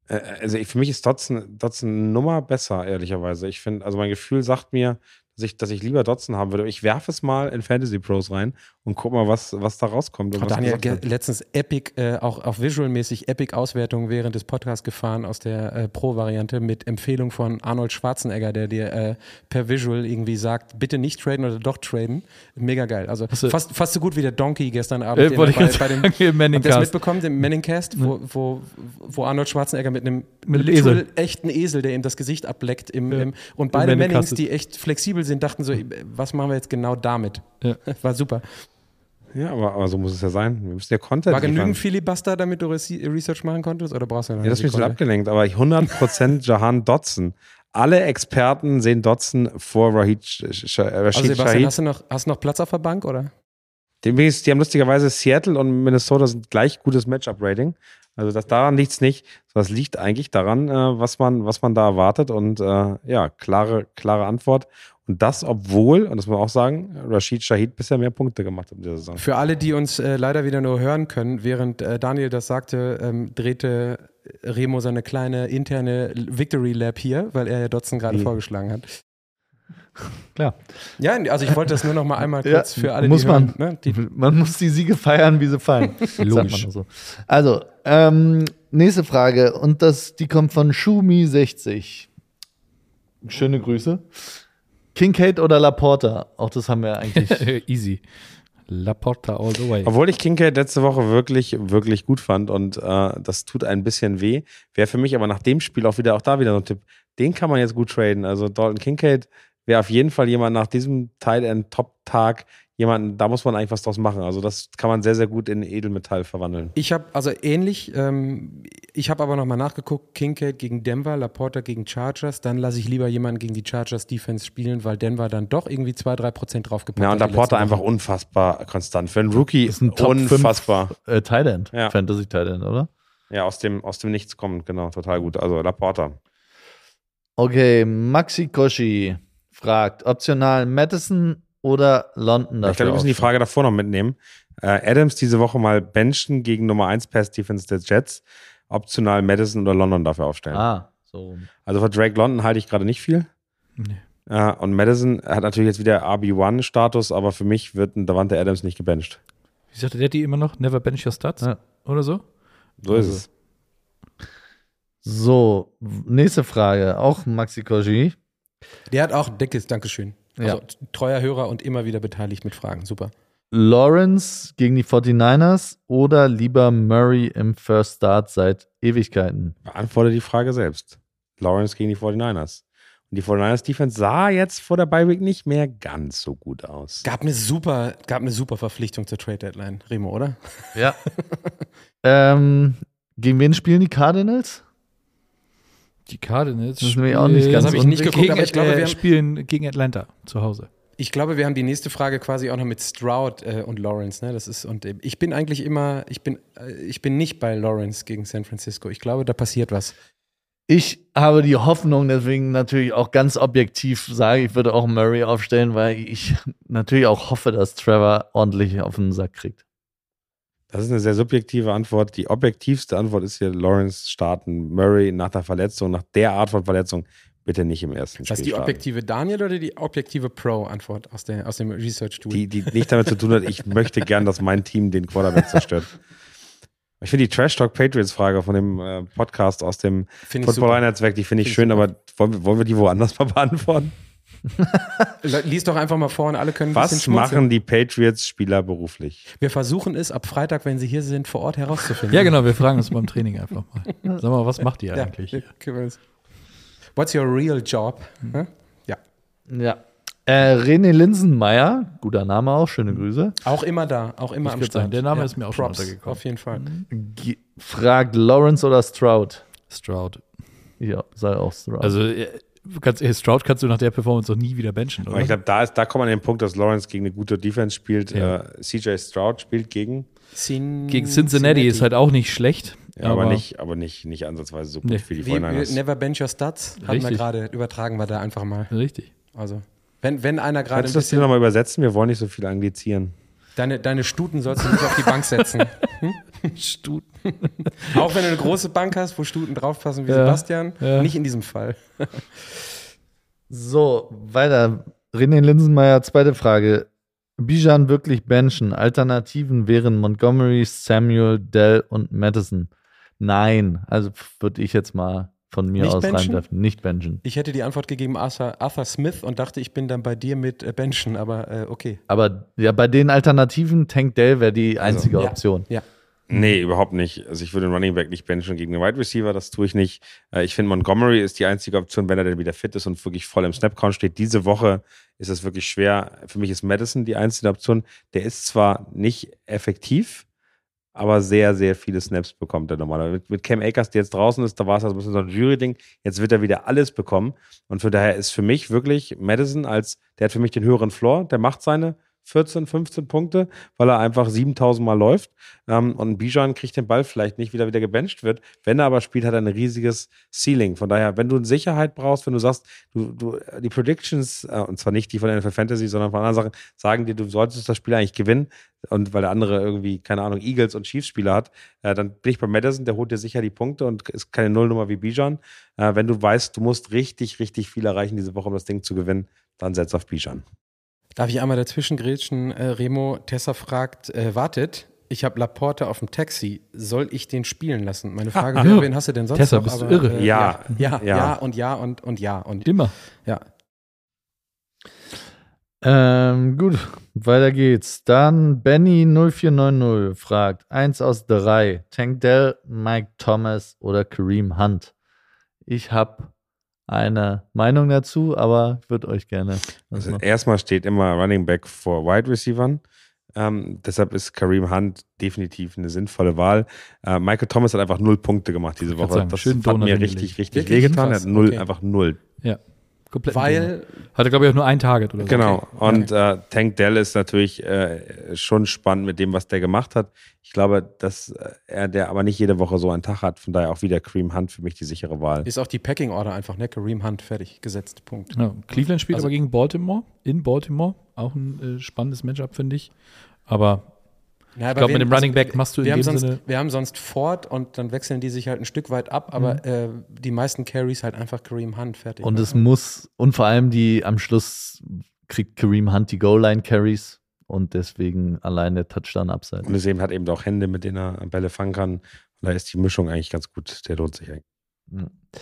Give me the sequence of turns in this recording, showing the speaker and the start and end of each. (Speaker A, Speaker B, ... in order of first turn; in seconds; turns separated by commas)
Speaker A: 0.1-11.0, Speaker B: 10.3-38.6, Speaker C: 23.3-23.6, Speaker C: 25.1-28.1, Speaker C: 30.5-31.0, Speaker C: 33.1-34.4, Speaker A: 39.3-41.8, Speaker B: 41.3-45.0, Speaker A: 44.4-51.7, Speaker B: 51.1-53.3, Speaker A: 54.0-69.2, Speaker B: 69.2-78.8, Speaker D: 80.3-80.8, Speaker B: 81.0-84.0, Speaker D: 82.4-92.1, Speaker C: 86.2-86.7, Speaker D: 93.2-94.4, Speaker D: 94.9-97.4, Speaker C: 97.1-98.0, Speaker C: 98.7-99.9, Speaker A: 99.8-116.7, Speaker B: 116.7-127.8, Speaker A: 127.0-130.9, Speaker D: 129.7-132.9, Speaker A: 133.3-136.2, Speaker D: 137.4-143.3, Speaker A: 142.6-150.6, Speaker D: 150.5-151.5, Speaker A: 151.7-153.3, Speaker A: 154.3-159.2, Speaker C: 159.7-162.2, Speaker A: 162.8-163.2, Speaker D: 165.0-168.2, Speaker B: 168.9-173.1, Speaker D: 173.5-179.5, Speaker A: 179.7-187.0, Speaker B: 187.0-191.5, Speaker D: 190.7-191.0, Speaker D: 192.0-194.6, Speaker C: 196.1-200.7, Speaker D: 196.8-198.3, Speaker B: 197.5-199.0, Speaker B: 201.0-209.9, Speaker D: 210.7-219.6, Speaker A: 220.7-228.8, Speaker B: 228.3-232.8, Speaker A: 232.3-235.9, Speaker A: 237.0-243.9, Speaker B: 240.3-240.8, Speaker B: 241.4-241.8, Speaker B: 245.2-247.4, Speaker A: 246.7-249.2, Speaker B: 249.4-252.4, Speaker C: 252.1-255.5, Speaker B: 254.9-256.0, Speaker B: 256.9-259.0, Speaker D: 259.5-263.4, Speaker B: 263.4-266.7, Speaker C: 264.4-266.9, Speaker D: 266.9-269.4, Speaker C: 269.7-270.2, Speaker D: 270.8-271.9, Speaker C: 271.8-275.4, Speaker A: 275.1-280.1, Speaker B: 280.3-281.9, Speaker C: 280.9-283.4, Speaker A: 283.0-285.8, Speaker B: 285.2-288.7, Speaker C: 286.8-287.2, Speaker C: 288.7-289.1, Speaker B: 289.3-291.3, Speaker A: 290.7-293.1, Speaker B: 293.6-296.5, Speaker C: 294.6-295.6, Speaker C: 296.6-298.1, Speaker B: 297.8-302.6, Speaker C: 300.1-301.1, Speaker D: 303.5-317.2, Speaker B: 315.8-316.4, Speaker B: 317.2-322.0, Speaker D: 322.1-325.6, Speaker A: 324.8-325.1, Speaker B: 325.1-325.8, Speaker A: 326.3-340.2, Speaker A: 340.9-380.4, Speaker B: 381.2-393.4, Speaker A: 388.3-388.7, Speaker C: 388.6-390.1, Speaker A: 390.1-391.4, Speaker C: 392.6-392.9, Speaker D: 395.8-404.9, Speaker D: 405.6-406.3, Speaker D: 406.9-410.2, Speaker A: 409.9-412.8, Speaker A: 413.4-422.2, Speaker C: 418.9-420.4, Speaker B: 420.5-421.6, Speaker C: 422.4-425.6, Speaker B: 423.3-423.9, Speaker A: 425.2-435.5, Speaker B: 425.3-426.1, Speaker B: 435.4-439.3, Speaker C: 438.3-442.9, Speaker C: 443.4-443.9, Speaker B: 444.6-452.6, Speaker C: 444.7-446.4, Speaker C: 449.3-449.6, Speaker D: 452.2-459.7, Speaker A: 459.6-464.4, Speaker D: 464.9-465.2